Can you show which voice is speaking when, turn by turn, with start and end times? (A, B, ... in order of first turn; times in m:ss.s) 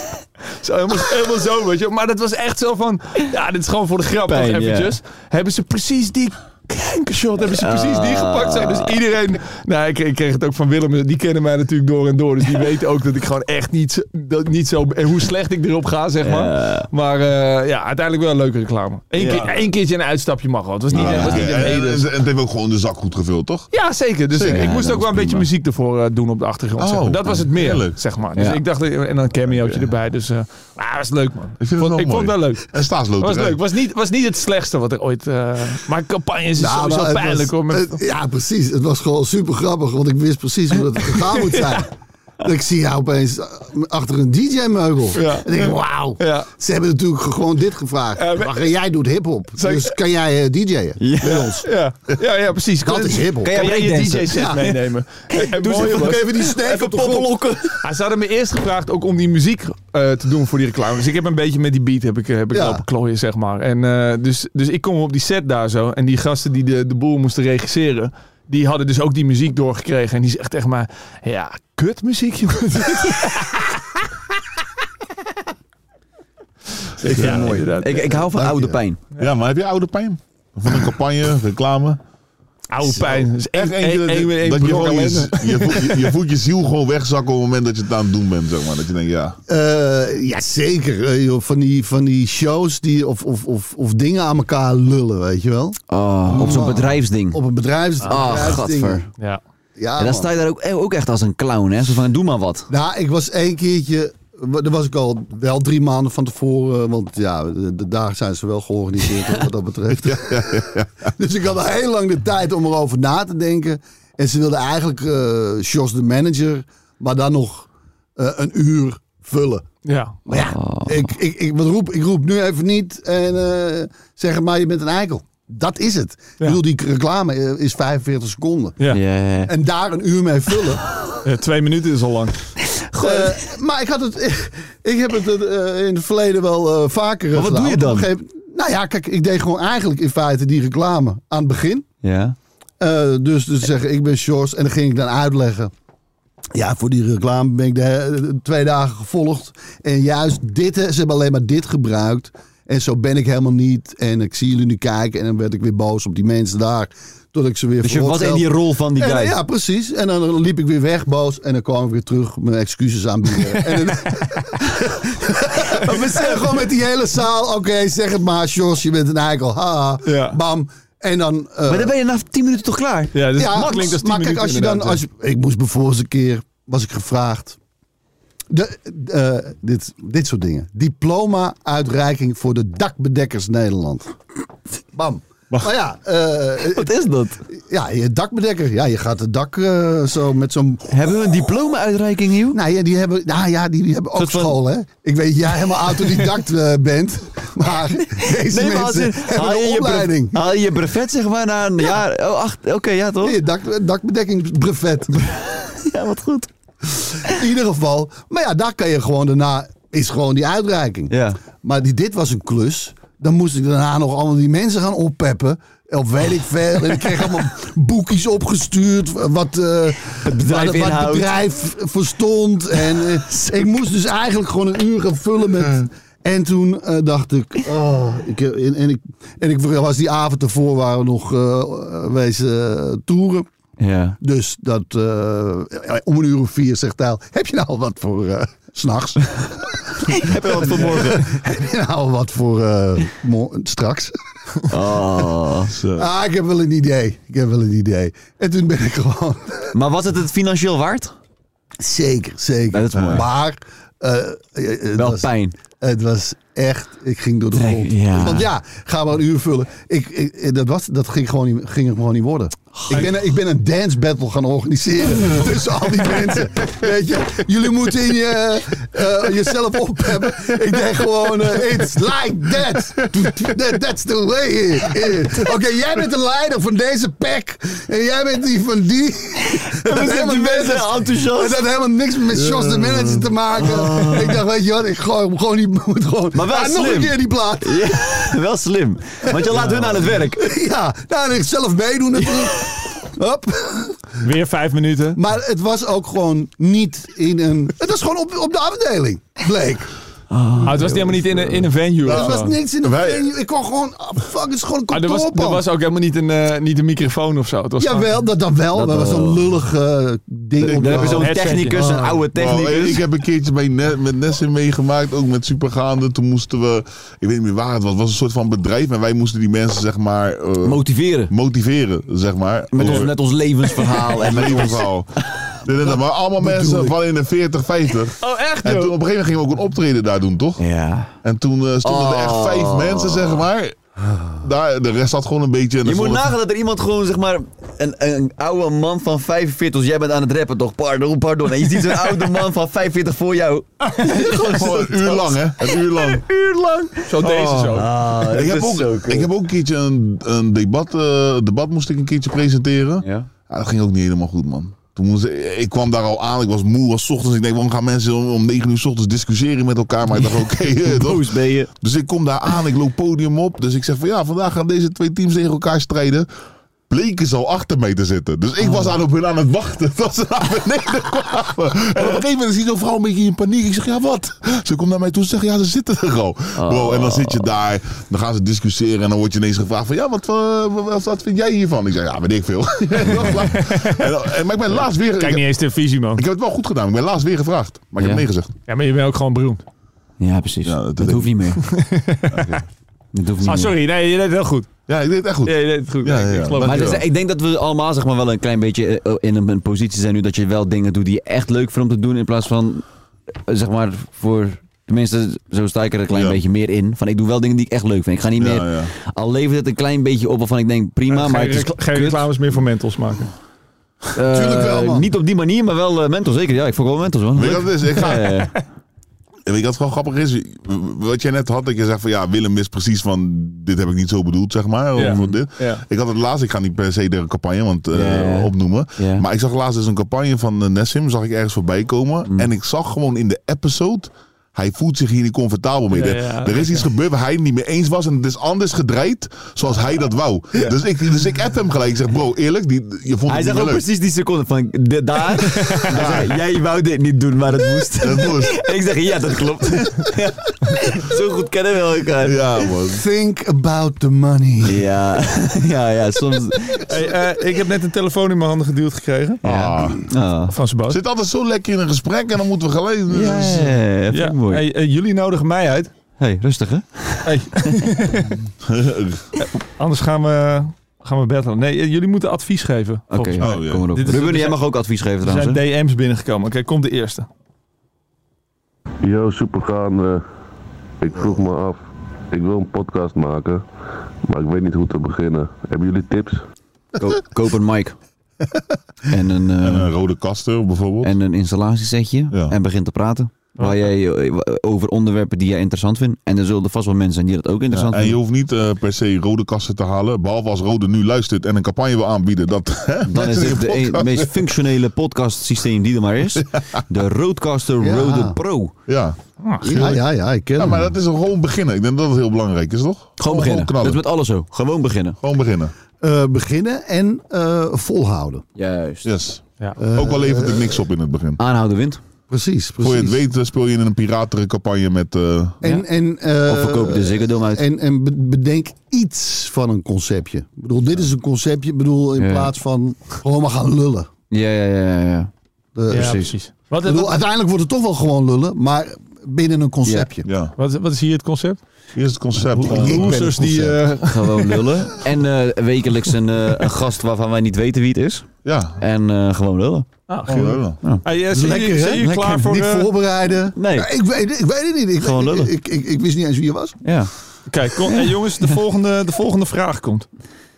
0:00.6-0:22.1 A
0:04.3-0:04.9 B
0:07.6-0:09.0 B
0:16.2-0:16.9 B
0:19.1-0:19.5 B
0:19.2-0:19.6 C
0:20.9-0:21.6 B
0:20.9-0:23.7 C
0:23.7-0:38.0 A
0:24.3-0:24.7 C
0:24.4-0:25.5 B
0:26.8-0:28.0 C
0:28.4-0:28.6 B
0:29.5-0:29.9 C
0:31.6-0:33.6 C
0:36.6-0:51.7 D
0:41.3-0:41.8 A
0:45.2-0:46.5 A
0:48.2-0:48.7 A
0:49.6-0:50.0 A
0:51.0-0:51.5 B
0:51.6-0:56.3 A
0:52.8-0:53.6 D
0:53.4-0:54.8 B
0:54.3-0:54.6 D
0:55.3-0:57.8 B
0:55.6-0:57.3 D
0:57.8-1:13.7 A
1:02.5-1:02.8 D
1:17.0-1:18.2 A
1:17.0-1:19.0 B
1:17.2-1:17.5 C
1:19.2-1:22.0 C
1:22.7-1:26.1 A
1:23.0-1:29.4 C
1:29.5-1:39.1 D
1:35.9-1:37.4 B
1:38.0-1:39.0 B
1:39.8-1:40.3 D
1:40.0-1:42.7 B
1:42.7-1:59.6 D
1:50.0-1:51.1 C
1:59.9-2:00.2 A
2:00.3-2:08.8 D
2:00.3-2:01.1 B
2:08.9-2:09.5 B
2:09.4-2:10.8 D
2:11.2-2:12.4 A
2:12.9-2:13.4 B
2:13.0-2:21.9 D
2:17.3-2:18.1 B
2:22.0-2:22.4 B
2:22.8-2:25.7 D
2:26.5-2:52.0 D
2:37.8-2:39.4 B
2:43.5-2:44.1 A
2:50.0-2:50.4 A
2:51.7-2:53.2 B
2:53.1-2:55.0 A
2:53.4-2:57.6 D
2:58.5-3:04.2 D
3:04.9-3:10.9 D
3:06.7-3:07.4 B
3:10.9-3:12.6 B
3:12.5-3:20.4 D
3:14.2-3:14.6 B
3:18.4-3:23.4 B
3:23.2-3:25.2 D
3:25.1-3:26.5 B
3:26.9-3:53.5 D
3:31.1-3:31.4 B
3:40.2-3:41.3 B
3:53.8-3:54.2 B
3:54.2-4:04.2 D
4:00.1-4:01.3 B
4:04.7-4:05.8 B
4:05.7-4:06.1 C
4:06.0-4:09.7 D
4:09.7-4:11.1 B
4:11.8-4:48.3 D
4:12.7-4:13.3 B
4:12.9-4:13.2 C
4:15.0-4:15.5 B
4:17.5-4:18.5 B
4:39.6-4:41.6 B
4:42.3-4:43.3 C
4:43.6-4:44.4 B
4:46.3-4:50.5 B
4:49.2-4:54.1 D
4:54.2-4:55.2 A
4:55.2-4:59.9 D
5:00.3-5:01.6 B
5:00.6-5:02.5 A
5:02.0-5:05.7 D
5:02.1-5:03.3 C
5:04.9-5:08.1 A
5:07.8-5:12.2 D
5:08.8-5:09.4 B
5:10.6-5:13.0 B
5:10.8-5:11.8 A
5:12.3-5:30.6 C
5:20.6-5:21.3 B
5:22.7-5:24.9 B
5:26.4-5:27.0 D
5:28.2-5:29.0 A
5:30.6-5:31.2 B
5:31.2-5:33.8 C
5:31.8-5:33.5 B
5:34.4-5:36.3 C
5:35.8-5:45.3 B
5:43.9-5:46.7 C
5:47.0-5:47.9 A
5:47.2-6:06.3 C
5:47.7-5:49.3 B
5:53.0-5:53.3 B
6:00.1-6:01.7 B
6:06.9-6:25.4 C
6:08.6-6:09.0 B
6:16.6-6:17.5 B
6:23.3-6:24.1 A
6:24.7-6:26.2 A
6:26.2-6:28.5 C
6:28.0-6:28.2 B
6:28.7-6:29.6 A
6:30.2-6:31.6 B
6:30.7-6:31.3 C
6:31.7-6:32.6 A
6:32.3-6:32.6 C
6:33.1-6:33.7 B
6:33.4-6:34.7 A
6:34.9-6:37.0 C
6:35.4-6:37.0 A
6:36.6-6:42.8 B
6:43.5-6:52.3 B
6:46.1-6:46.4 C
6:48.4-6:48.9 C
6:51.1-6:53.3 A
6:54.2-6:58.5 B
6:54.3-6:55.1 D
6:57.4-6:58.5 C
6:59.5-7:23.8 C
7:05.0-7:05.8 A
7:05.0-7:05.4 B
7:07.9-7:09.2 B
7:15.9-7:16.9 A
7:23.3-7:32.4 B
7:25.8-7:26.4 C
7:28.0-7:28.6 C
7:32.2-7:33.0 C
7:32.9-7:34.8 D
7:34.6-7:36.9 B
7:36.9-7:39.4 A
7:39.4-7:40.5 B
7:39.4-7:40.1 C
7:40.5-7:41.0 A
7:40.9-7:43.8 C
7:43.1-7:44.6 B
7:44.1-7:45.9 A
7:46.2-7:47.9 B
7:47.3-7:48.3 A
7:48.6-7:49.3 C
7:49.4-7:54.6 A
7:53.1-7:55.6 B
7:53.4-7:54.1 C
7:55.2-7:57.3 A
7:59.0-8:00.2 E
8:01.0-8:01.8 E
8:02.3-8:03.6 E
8:04.2-8:06.4 E
8:07.0-8:08.0 B
8:09.1-8:09.9 B
8:09.6-8:11.1 C
8:11.0-8:18.2 B
8:17.7-8:24.5 C
8:23.1-8:28.7 B
8:26.4-8:26.8 C
8:27.8-8:28.4 D
8:28.9-8:30.0 C
8:29.7-8:30.9 D
8:30.6-8:34.0 C
8:33.2-8:35.2 B
8:35.2-8:35.7 C
8:36.0-8:38.4 D
8:38.6-8:39.1 B
8:39.0-8:39.4 C
8:39.8-8:40.8 D
8:39.9-8:41.4 C
8:41.4-8:42.0 B
8:42.3-8:43.2 D
8:42.8-8:45.6 C
8:45.6-8:54.1 D
8:46.4-8:47.6 B
8:52.2-8:52.5 B
8:54.3-8:55.3 B
8:55.8-8:56.3 D
8:55.9-8:56.3 B
8:55.9-8:57.2 A
8:56.8-9:00.3 D
8:59.8-9:00.1 B
9:00.2-9:00.5 C
9:00.6-9:01.6 A
9:02.0-9:03.3 C
9:02.6-9:03.8 D
9:02.8-9:04.7 A
9:04.1-9:09.9 B
9:08.4-9:08.8 C
9:10.1-9:12.9 A
9:10.3-9:10.8 C
9:11.3-9:16.8 D
9:12.0-9:12.5 B
9:13.6-9:13.9 B
9:15.0-9:15.5 B
9:16.8-9:17.1 B
9:17.5-9:20.1 A
9:17.9-9:18.3 B